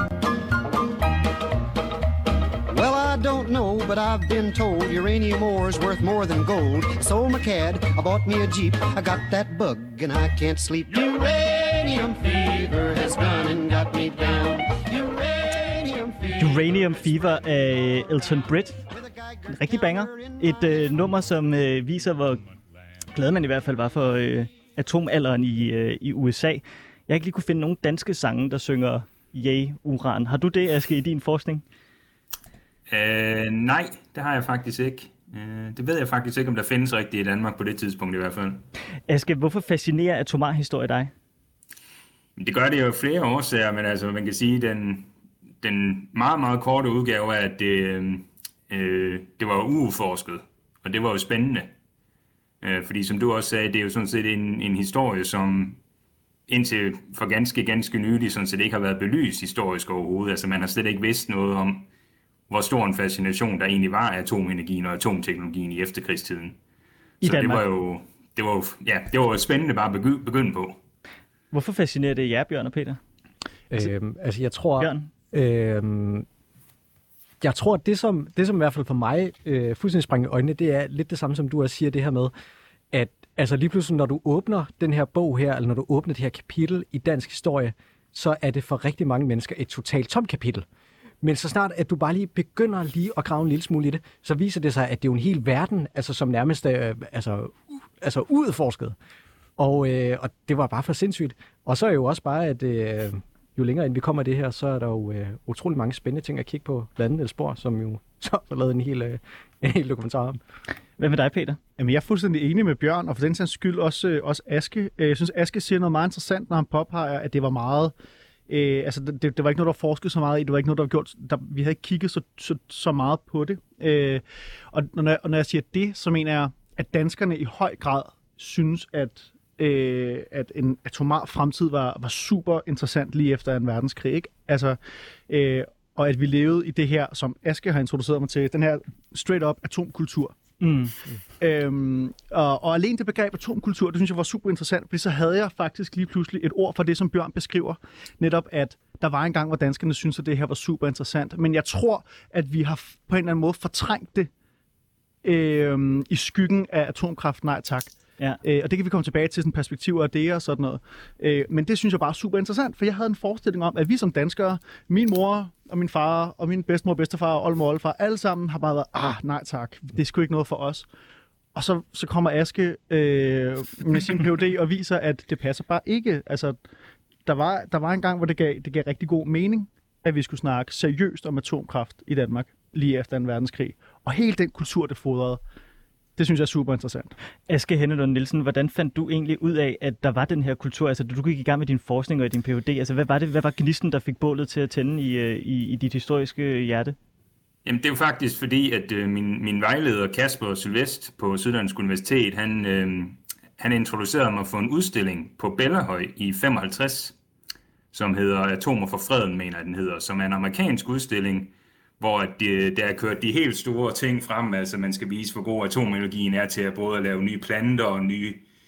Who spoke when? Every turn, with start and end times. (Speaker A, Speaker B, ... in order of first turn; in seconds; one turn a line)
Speaker A: 2.7-16.8
Speaker B: 16.4-18.8
Speaker A: 18.9-20.9
Speaker B: 19.5-22.4
Speaker B: 23.1-31.6
Speaker C: 32.9-38.6
Speaker B: 39.1-41.1
Speaker C: 42.4-45.1
Speaker C: 45.6-51.7
Speaker C: 52.6-55.8
Speaker C: 56.5-61.9
Speaker C: 62.5-66.6
Speaker B: 67.2-67.6
Speaker C: 67.2-70.8
Speaker B: 71.5-73.0
Speaker D: 73.7-76.2
Speaker B: 74.8-75.1
Speaker D: 77.4-82.3
Speaker D: 82.9-90.6
Speaker D: 91.2-99.0
Speaker D: 99.6-110.4
Speaker B: 111.0-111.6
Speaker E: 111.8-117.9
Speaker E: 118.5-134.8
Speaker E: 135.3-140.3
Speaker B: 140.6-140.9
Speaker E: 141.4-154.3
Speaker E: 155.2-170.8
Speaker E: 171.5-176.6
Speaker E: 177.2-185.4
Speaker E: 186.2-187.1
Speaker B: 187.5-196.9
Speaker C: 197.6-207.1
Speaker C: 207.9-218.4